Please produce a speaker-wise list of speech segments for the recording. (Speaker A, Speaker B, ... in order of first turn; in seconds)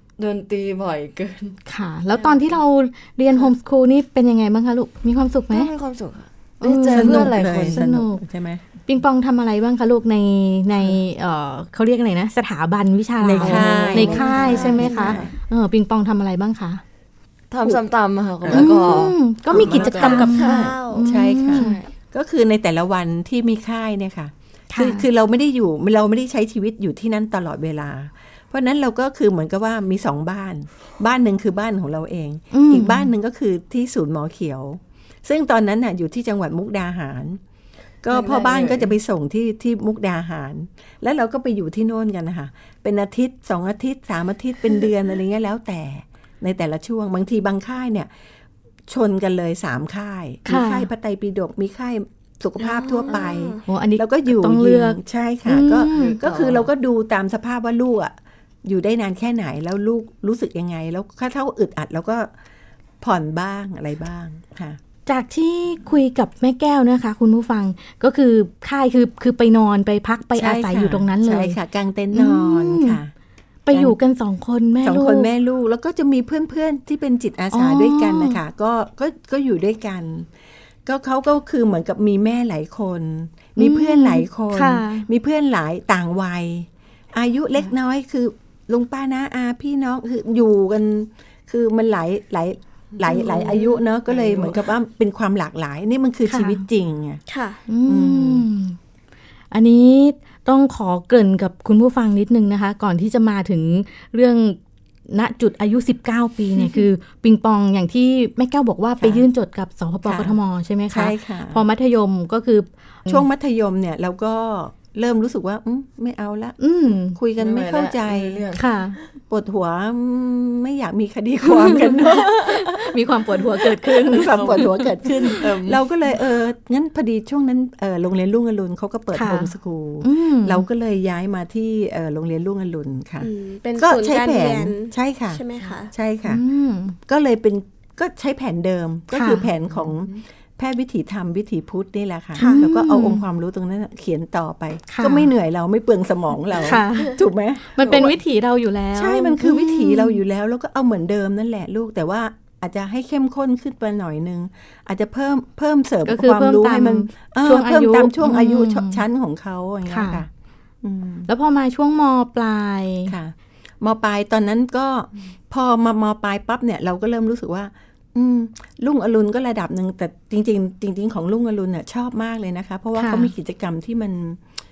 Speaker A: 0.2-1.6, 2.1-2.5, 5.5-7.9, 13.3-15.3, 17.5-20.8, 21.5-21.9, 38.1-38.9, 55.9-56.7, 93.0-94.6, 117.4-119.0, 124.1-125.8, 139.7-140.1
Speaker B: 1.7-5.7, 6.6-8.2, 8.9-16.8, 18.5-21.8, 24.7-25.1, 32.5-33.1, 50.5-50.9, 53.7-56.2, 65.0-71.6, 72.1-73.0, 73.7-75.3, 77.5-78.4, 83.6-85.1, 96.3-96.6, 97.7-98.8, 99.5-113.3, 116.6-117.2, 118.5-119.0, 121.5-125.4, 129.1-130.7, 136.3-137.0, 139.1-139.4, 142.4-143.2, 144.9-145.3, 146.6-147.2, 147.7-150.2, 156.1-159.0, 159.9-160.2, 161.3-163.1, 172.9-173.3
Speaker C: 6.9-8.6, 13.2-15.3, 18.4-18.9, 19.5-37.4, 38.0-48.1, 48.9-62.3, 63.0-64.8, 70.3-73.1, 73.7-74.0, 74.8-80.3, 80.8-97.2, 97.8-98.5, 109.0-109.2, 110.0-110.4, 110.9-111.6, 113.1-116.6, 117.1-118.4, 119.3-123.0, 123.6-136.4, 137.1-148.2, 148.9-160.3, 160.8-161.3, 163.1-174.4
Speaker D: 20.0-21.1, 52.6-53.6, 97.3-97.6, 133.2-135.9, 142.4-142.6